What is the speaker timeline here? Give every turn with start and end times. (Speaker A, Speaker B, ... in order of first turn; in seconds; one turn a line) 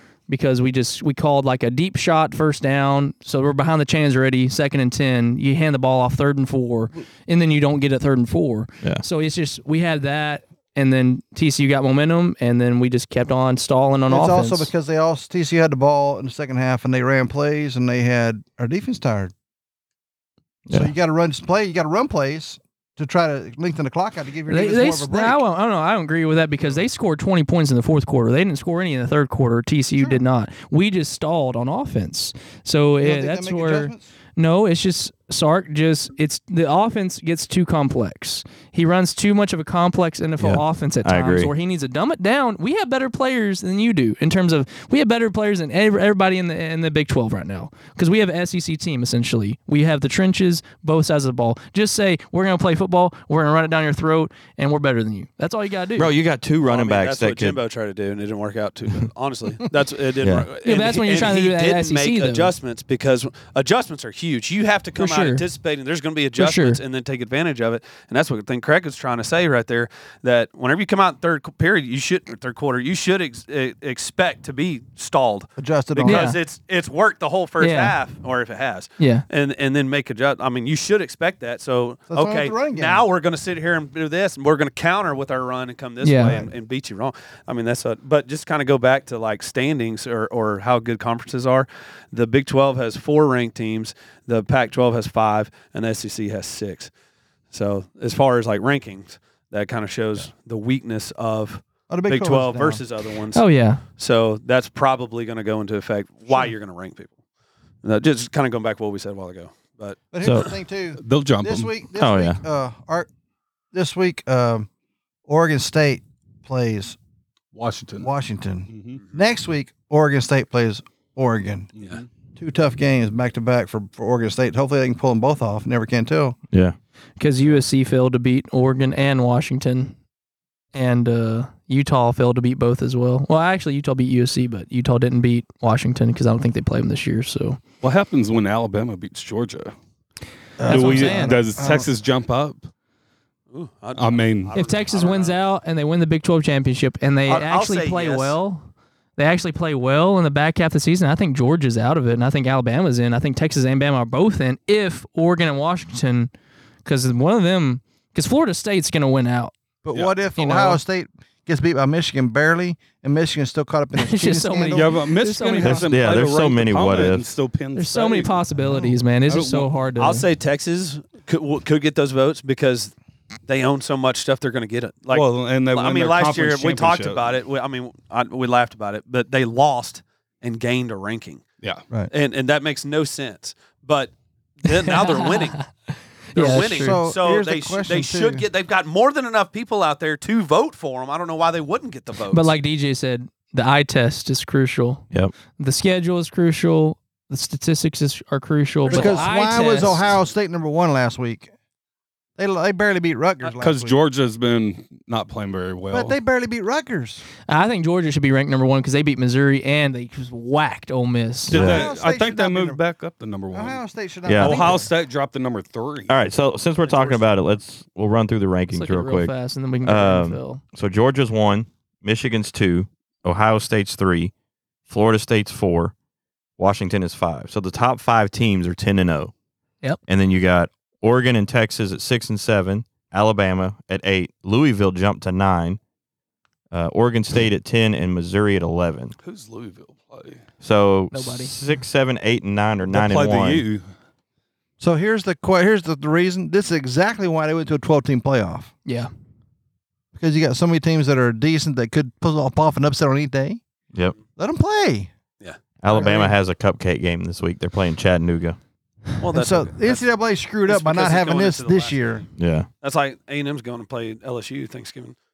Speaker A: 0.3-14.7
Speaker B: 14.1-19.3
Speaker B: 20.7-25.4
Speaker A: 24.5-56.1
Speaker B: 33.0-34.1
Speaker C: 40.4-41.5
Speaker C: 56.0-57.6
Speaker D: 56.6-96.9
Speaker C: 60.2-60.5
Speaker A: 60.6-62.5
Speaker A: 65.0-65.4
Speaker A: 66.4-66.8
Speaker B: 75.6-76.3
Speaker A: 76.0-76.4
Speaker A: 77.6-77.9
Speaker A: 79.0-79.2
Speaker B: 82.1-83.0
Speaker A: 86.0-86.4
Speaker B: 86.2-86.5
Speaker D: 97.5-107.1
Speaker B: 101.9-102.8
Speaker A: 103.3-103.8
Speaker D: 107.8-110.5
Speaker B: 110.1-113.1
Speaker C: 110.2-110.5
Speaker E: 111.0-111.7
Speaker C: 112.0-112.4
Speaker B: 113.7-114.7
Speaker B: 115.3-117.0
Speaker E: 117.5-118.1
Speaker B: 118.0-121.7
Speaker E: 118.7-119.0
Speaker E: 121.8-122.0
Speaker B: 122.3-126.4
Speaker A: 127.2-129.9
Speaker A: 130.7-137.6
Speaker E: 137.8-139.7
Speaker B: 140.6-141.9
Speaker A: 140.6-141.4
Speaker E: 140.6-142.7
Speaker D: 143.5-145.4
Speaker E: 143.9-144.6
Speaker A: 144.5-148.7
Speaker D: 147.3-148.3
Speaker A: 149.2-156.3
Speaker A: 156.8-159.5
Speaker B: 159.8-165.0
Speaker A: 160.3-160.8
Speaker A: 163.9-165.9
Speaker E: 164.7-168.5
Speaker C: 165.6-167.3
Speaker A: 167.7-170.3
Speaker E: 169.3-169.7
Speaker D: 170.0-172.9
Speaker D: 173.5-181.4
Speaker E: 175.1-177.3
Speaker D: 182.1-185.6
Speaker A: 184.7-187.0
Speaker D: 186.3-192.5
Speaker B: 186.5-188.4
Speaker A: 192.3-195.0
Speaker A: 195.6-200.0
Speaker D: 198.9-200.1
Speaker B: 198.9-201.5
Speaker B: 202.4-203.9
Speaker E: 203.6-206.2
Speaker B: 205.9-207.2
Speaker A: 207.5-211.6
Speaker E: 211.5-216.2
Speaker C: 211.5-211.9
Speaker B: 211.5-212.8
Speaker B: 213.5-214.9
Speaker C: 214.2-214.8
Speaker C: 216.1-219.3
Speaker D: 216.8-217.4
Speaker A: 218.7-220.6
Speaker C: 219.8-224.3
Speaker C: 224.9-225.9
Speaker C: 226.6-229.3
Speaker C: 230.1-235.8
Speaker C: 236.7-239.1
Speaker E: 239.2-240.4
Speaker C: 240.6-243.6
Speaker A: 241.1-241.5
Speaker E: 242.9-243.8
Speaker B: 244.8-248.7
Speaker B: 250.1-253.6
Speaker B: 254.3-255.1
Speaker C: 255.8-258.6
Speaker B: 255.9-256.3
Speaker D: 259.2-260.0
Speaker B: 259.3-262.2
Speaker D: 260.6-262.2
Speaker C: 262.4-262.7
Speaker D: 262.8-265.1